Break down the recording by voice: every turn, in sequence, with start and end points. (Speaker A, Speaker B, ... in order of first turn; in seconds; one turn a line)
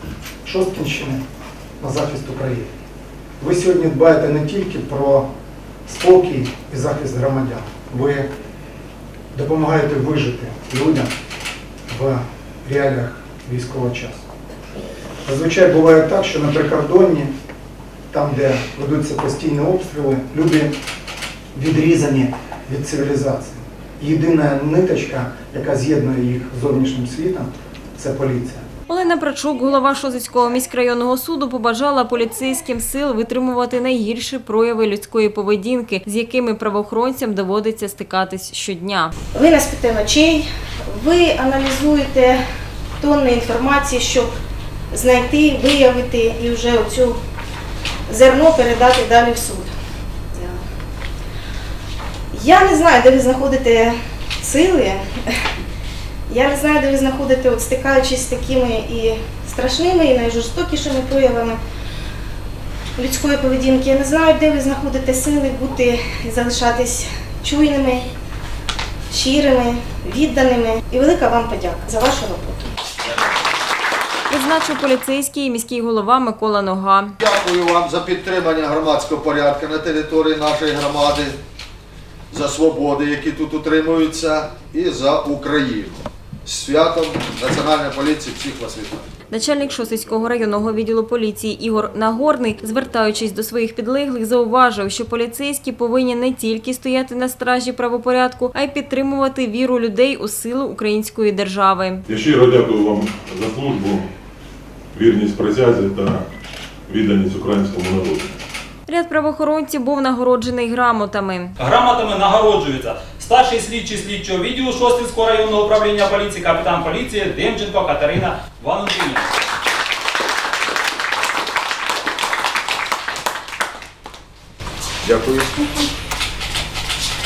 Speaker A: 0.5-1.2
Speaker A: 1.8-2.7
Speaker A: 3.4-5.3
Speaker A: 5.9-8.3
Speaker A: 9.3-11.1
Speaker A: 11.9-14.2
Speaker A: 15.2-17.3
Speaker A: 18.1-20.7
Speaker A: 21.5-28.6
Speaker B: 28.9-39.1
Speaker C: 39.3-42.4
Speaker C: 43.0-44.3
Speaker C: 44.9-47.2
Speaker C: 48.1-49.7
Speaker C: 50.3-50.6
Speaker C: 52.3-55.4
Speaker C: 56.3-61.6
Speaker C: 63.0-68.1
Speaker C: 69.1-72.8
Speaker B: 74.3-77.2
Speaker D: 77.2-81.4
Speaker D: 82.3-89.1
Speaker B: 89.3-102.0
Speaker E: 102.1-104.1
Speaker E: 104.9-106.3
Speaker E: 106.9-108.3
Speaker B: 108.9-111.5
Speaker F: 111.6-119.3
Speaker D: 125.0-125.5